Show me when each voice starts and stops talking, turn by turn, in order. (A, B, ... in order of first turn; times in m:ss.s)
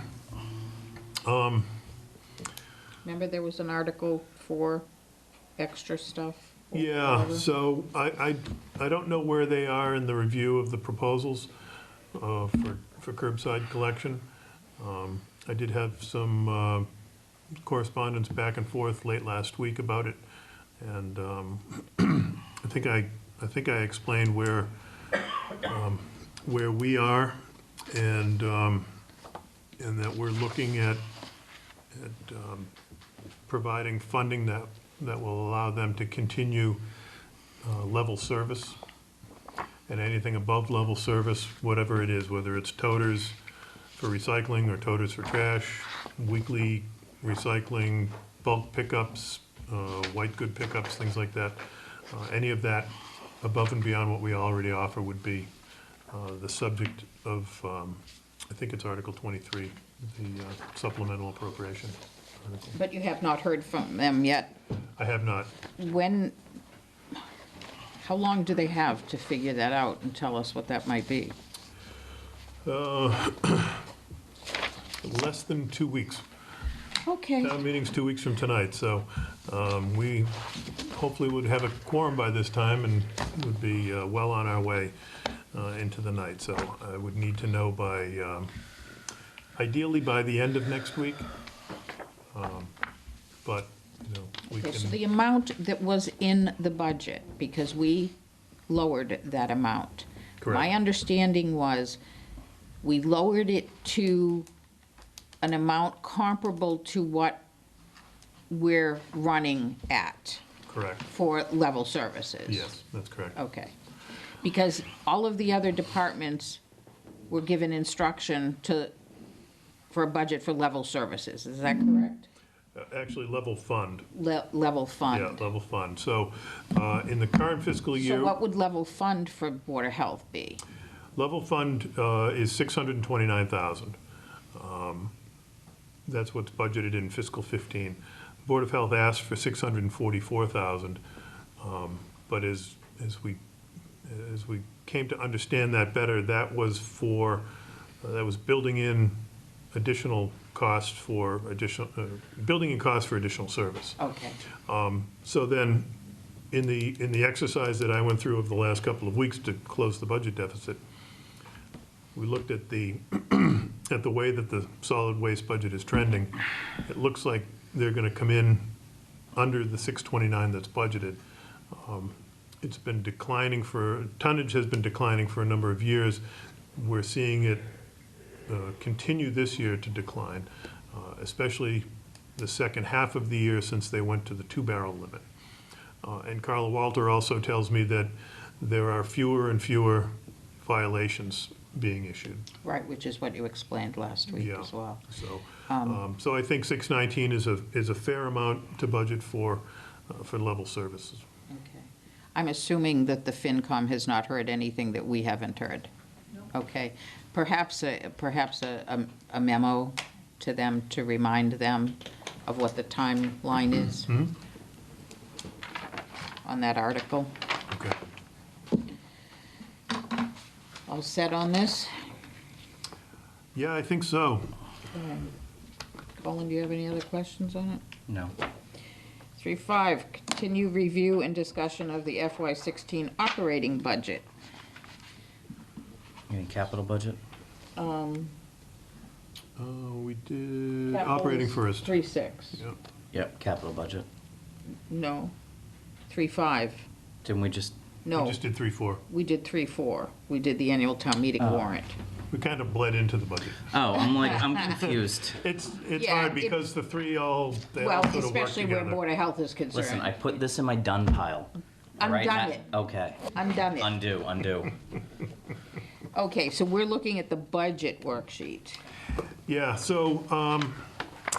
0:01.2-0:01.8 A
0:03.0-0:04.9 B
0:05.6-0:07.5 B
0:06.7-0:11.5 A
0:12.1-0:14.3 A
0:14.8-0:16.9 A
0:17.6-0:20.2 A
0:20.8-0:24.7 A
0:25.6-0:28.9 A
0:29.8-0:31.0 A
0:31.9-0:32.7 A
0:33.5-0:36.8 A
0:37.6-0:38.8 A
0:39.9-0:43.4 A
0:44.0-0:55.5 A
0:56.1-1:02.8 A
1:02.8-1:04.6 B
1:05.0-1:05.5 A
1:05.8-1:06.4 B
1:08.0-1:11.4 B
1:12.6-1:13.8 A
1:15.0-1:16.2 A
1:17.0-1:17.5 B
1:17.4-1:24.9 A
1:25.5-1:28.5 A
1:29.6-1:31.3 A
1:32.3-1:32.7 A
1:33.4-1:35.0 A
1:34.5-1:38.2 B
1:38.7-1:42.0 B
1:40.4-1:40.7 A
1:42.8-1:44.5 B
1:45.4-1:47.4 B
1:48.5-1:50.4 B
1:50.7-1:51.1 A
1:51.1-1:52.7 B
1:52.5-1:53.4 A
1:53.4-1:53.7 B
1:54.4-1:56.6 B
1:57.3-1:58.9 B
1:59.9-2:02.3 B
2:02.8-2:04.1 A
2:04.1-2:05.4 B
2:05.1-2:08.4 A
2:08.0-2:10.6 B
2:11.2-2:14.0 A
2:14.5-2:15.1 A
2:16.1-2:21.0 A
2:21.6-2:23.4 A
2:24.0-2:27.5 A
2:28.0-2:29.2 A
2:29.7-2:34.0 A
2:34.0-2:34.4 B
2:34.6-2:35.9 A
2:36.5-2:40.8 A
2:42.2-2:48.7 A
2:49.3-2:51.2 A
2:51.7-2:56.2 A
2:56.8-2:57.7 A
2:58.5-3:05.2 A
3:06.0-3:12.5 A
3:12.6-3:15.0 B
3:14.3-3:21.3 A
3:15.7-3:16.0 B
3:21.5-3:25.9 B
3:26.5-3:34.1 B
3:34.1-3:34.3 A
3:36.4-3:37.3 B
3:37.7-3:38.0 A
3:40.9-3:41.9 B
3:43.6-3:44.5 A
3:44.9-3:45.3 B
3:46.2-3:47.8 B
3:48.1-3:48.3 C
3:49.4-3:54.3 B
3:56.3-3:57.2 C
3:57.8-3:58.3 B
3:59.6-4:02.0 A
4:00.9-4:02.6 B
4:03.1-4:04.1 C
4:04.9-4:05.3 B
4:06.1-4:06.9 B
4:07.2-4:07.8 C
4:08.0-4:08.4 B
4:08.1-4:09.0 A
4:09.1-4:12.0 B
4:11.4-4:11.7 C
4:12.3-4:13.8 A
4:13.7-4:15.4 C
4:15.3-4:19.0 A
4:16.0-4:16.6 B
4:17.8-4:20.4 B
4:19.7-4:24.8 C
4:22.0-4:22.6 B
4:23.3-4:23.9 B
4:26.1-4:28.8 B
4:29.5-4:30.9 A